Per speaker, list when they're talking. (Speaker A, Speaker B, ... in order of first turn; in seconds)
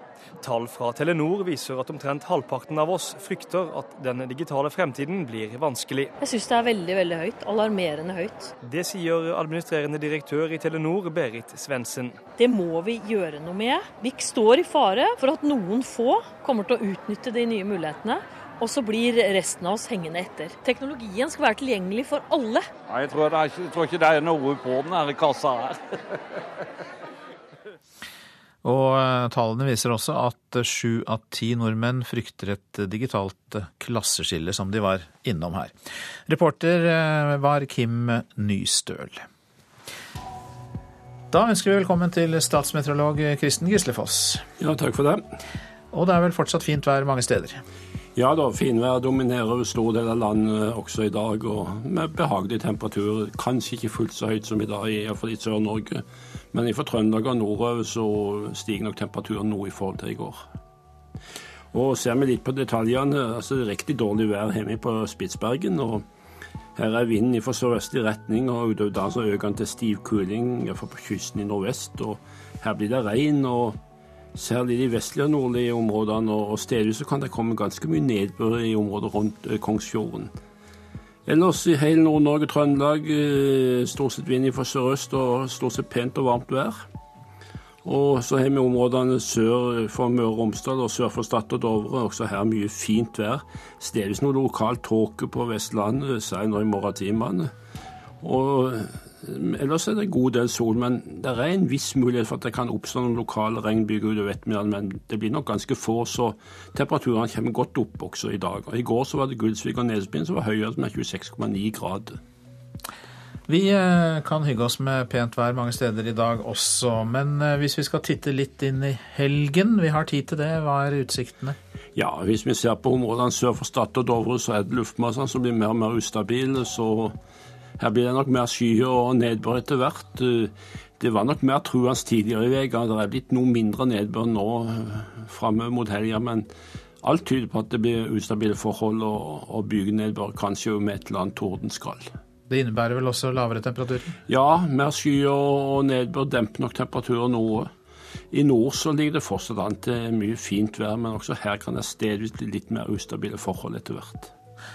Speaker A: 1.0-1.9, 8.9-9.9, 10.5-11.0
Speaker B: 6.2-8.5, 12.4-22.6
Speaker C: 22.9-25.7
Speaker D: 28.6-35.8, 36.3-39.2, 41.3-44.4, 45.9-47.6, 113.5-121.6, 142.5-144.2
Speaker E: 44.6-45.2, 48.1-60.4, 61.7-66.0, 66.8-73.8, 74.3-80.3, 81.3-86.8, 87.8-97.5, 98.2-112.2, 122.0-127.2, 127.8-136.5, 137.0-142.1, 144.3-147.7, 148.3-154.3